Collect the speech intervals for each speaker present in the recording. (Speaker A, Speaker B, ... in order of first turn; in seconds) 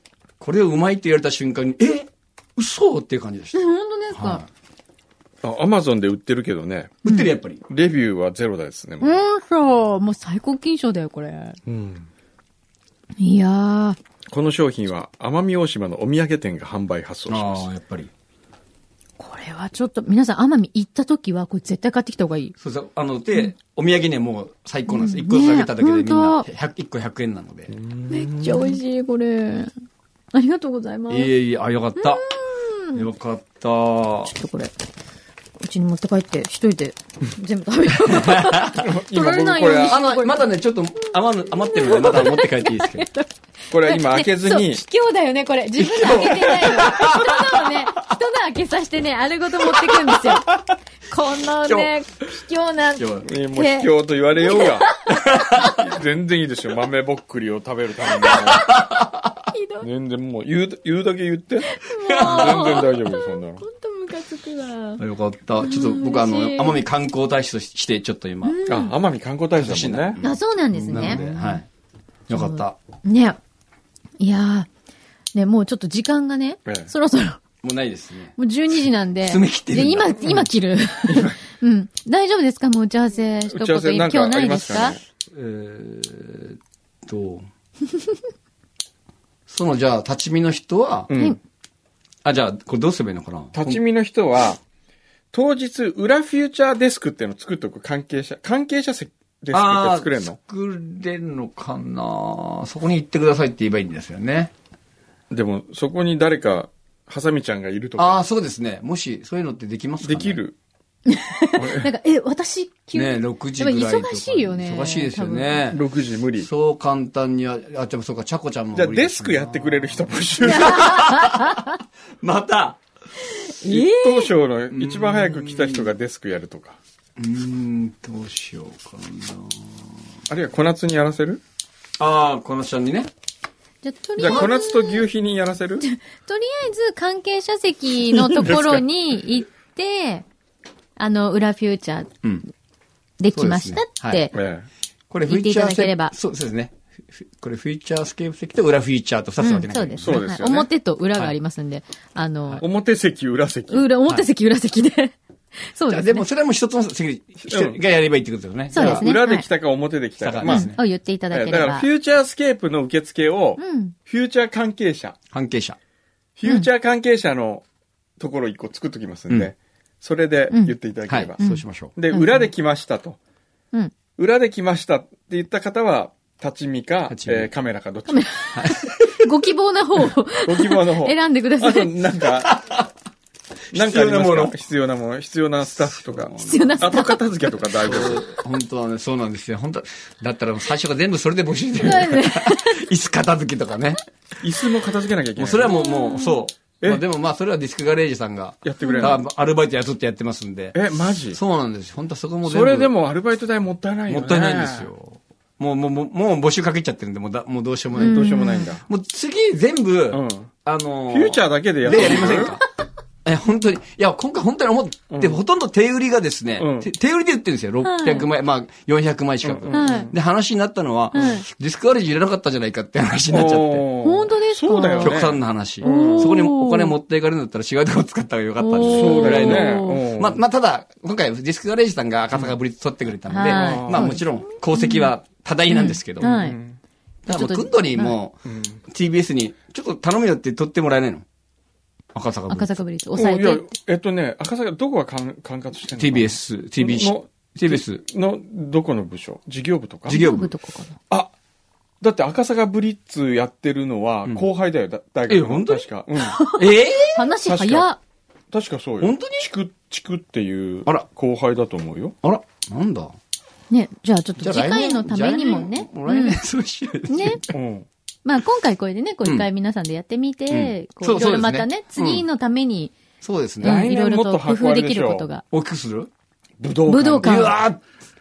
Speaker A: 0.4-3.6, 4.1-4.5, 7.0-7.6, 17.3-18.1, 22.6-27.7, 31.1-32.3, 32.9-34.3, 38.1-38.9, 39.8-43.1, 45.8-47.8, 49.9-50.4, 51.6-51.9, 53.0-53.2, 55.1-55.7, 58.3-59.4, 62.0-62.8, 65.0-68.6, 69.6-71.7, 72.3-72.8, 77.6-78.3, 79.2-80.5, 85.3-87.5, 89.5-91.1, 92.2-93.8, 99.5-104.5, 108.0-110.4, 112.9-115.8, 116.4-121.7, 122.2-122.8, 124.7-125.9, 127.2-130.0, 132.0-133.1, 134.2-134.5, 143.3-144.2, 145.1-150.2, 155.9-159.1, 160.2-160.8, 165.3-165.8, 171.1-171.9, 177.1-177.5, 178.5-179.0, 182.4-182.8, 183.7-184.5, 185.8-186.8, 187.8-194.0, 195.3-200.8, 201.3-202.9, 204.1-212.6, 213.2-223.9, 225.0-236.3, 237.3-241.2, 242.1-242.8, 245.9-248.0, 250.1-250.5, 255.3-255.8, 256.5-257.3, 259.0-259.5, 262.2-263.1, 264.4-267.5, 270.5-272.2, 273.2-273.9, 275.5-276.1, 277.2-277.8
Speaker B: 3.5-4.4, 9.0-11.6, 13.2-14.0, 19.2-22.5, 24.9-26.4, 28.1-29.7, 30.3-31.3, 32.0-33.0, 34.3-34.7, 35.6-40.4, 41.6-55.7, 59.5-59.9, 61.6-65.0, 65.6-66.8, 68.4-68.9, 70.2-71.6, 72.3-73.4, 74.2-74.7, 75.3-77.4, 78.4-85.0, 111.1-115.6, 120.4-121.8, 123.2-124.3, 133.8-135.0, 135.8-140.2, 141.0-142.1, 143.2-144.3, 145.3-146.1, 149.4-152.6, 153.7-156.2, 158.7-159.5, 160.4-161.8, 163.6-163.9, 170.5-170.8, 171.4-172.4, 178.1-181.9, 186.4-187.2, 191.8-192.8, 195.6-196.4, 198.8-199.2, 208.0-208.7, 211.9-212.6, 217.8-218.3, 219.7-220.1, 221.1-221.4, 224.0-225.2, 225.8-226.9, 228.6-230.0, 233.3-235.1, 235.7-236.6, 237.2-238.2, 242.5-243.7, 250.1-251.0, 256.2-258.0, 263.7-266.4, 267.1-267.4, 268.2-272.9, 273.6-275.4, 276.9-277.5
Speaker C: 5.4-7.0, 7.7-9.2, 11.7-12.1, 14.3-17.7, 27.7-28.8, 38.7-40.1, 43.7-44.8, 53.2-54.9, 55.5-58.7, 59.8-63.6, 68.7-70.2, 70.9-71.2, 76.7-76.9, 81.1-81.3, 83.5-85.0, 91.1-91.4, 93.5-94.6, 95.3-100.4, 105.3-108.2, 110.0-110.5, 115.7-116.5, 118.7-120.8, 123.6-126.8, 130.3-131.4, 134.2-135.8, 138.1-138.8, 144.3-144.7, 150.0-150.7, 152.6-153.9, 157.4-157.8, 158.7-160.7, 161.3-165.2, 166.4-167.6, 168.2-171.4, 171.9-173.2, 174.2-178.3, 180.4-182.6, 183.7-188.3, 194.4-195.7, 198.6-199.2, 200.7-201.4, 202.4-204.9, 208.0-208.8, 210.1-210.5, 211.1-212.6, 215.1-215.4, 216.6-216.9, 219.4-220.1, 223.3-226.4, 228.8-230.4, 233.5-234.2, 236.2-236.8, 238.4-238.8, 243.1-250.2, 252.0-256.4, 257.4-257.9, 258.5-262.1, 267.5-267.9, 273.6-275.3, 276.6-277.6